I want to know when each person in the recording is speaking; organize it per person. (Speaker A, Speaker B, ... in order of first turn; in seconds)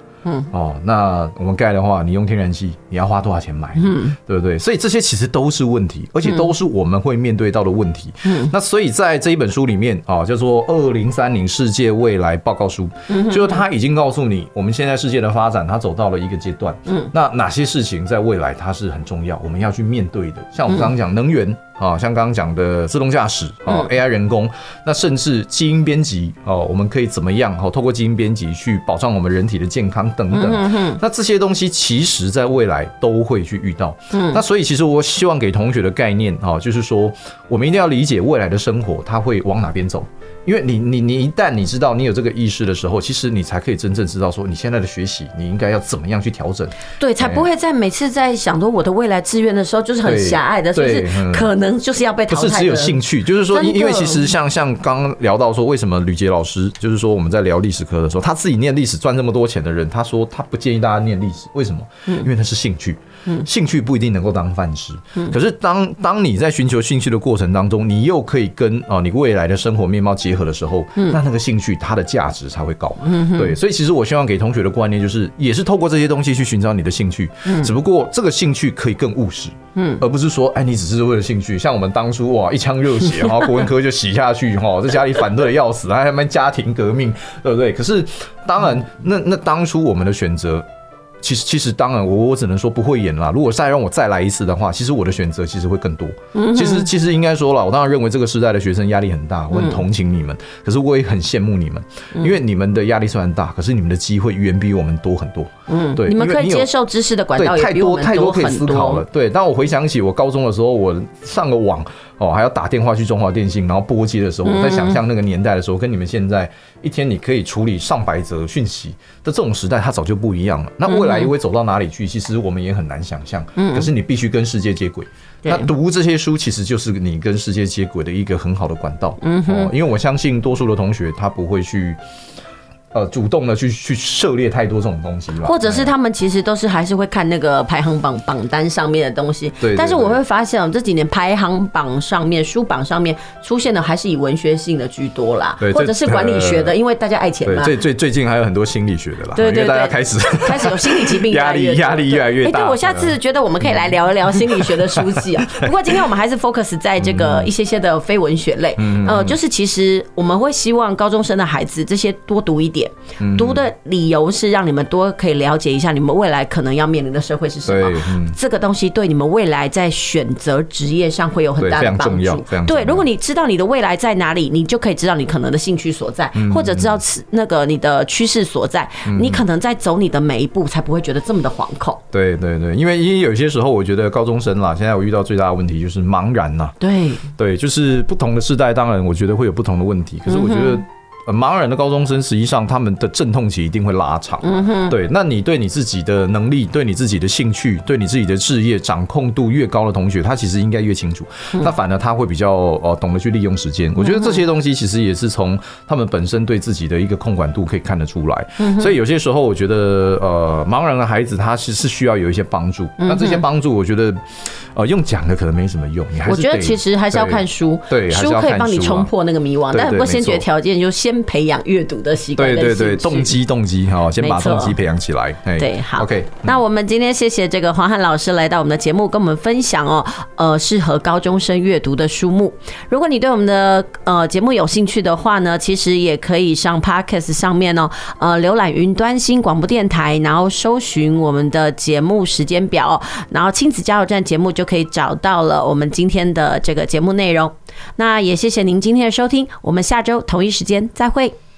Speaker A: 0.5-47.4, 50.0-51.5, 52.3-90.7, 91.2-106.7, 107.3-132.0, 132.9-135.9, 139.6-140.2, 145.6-146.7, 147.4-155.7, 157.0-157.5, 158.8-159.3, 163.2-163.7, 167.7-168.4, 171.6-173.0, 176.3-177.0, 179.1-179.4, 182.1-186.8, 187.4-219.1, 219.7-220.5, 222.4-226.6
Speaker B: 3.8-4.1, 8.2-8.5, 13.1-13.6, 30.3-31.0, 34.1-34.4, 47.0-53.0, 53.5-54.2, 73.0-73.5, 77.5-77.7, 79.8-80.0, 96.3-96.9, 99.5-99.8, 105.7-109.0, 114.4-115.0, 120.9-121.3, 123.5-123.9, 125.4-125.7, 129.2-129.7, 135.4-147.7, 149.3-182.0, 186.8-187.2, 190.3-190.8, 194.4-194.9, 204.0-204.4, 208.6-208.9, 213.0-213.4, 216.3-223.4, 224.2-224.8, 225.6-251.3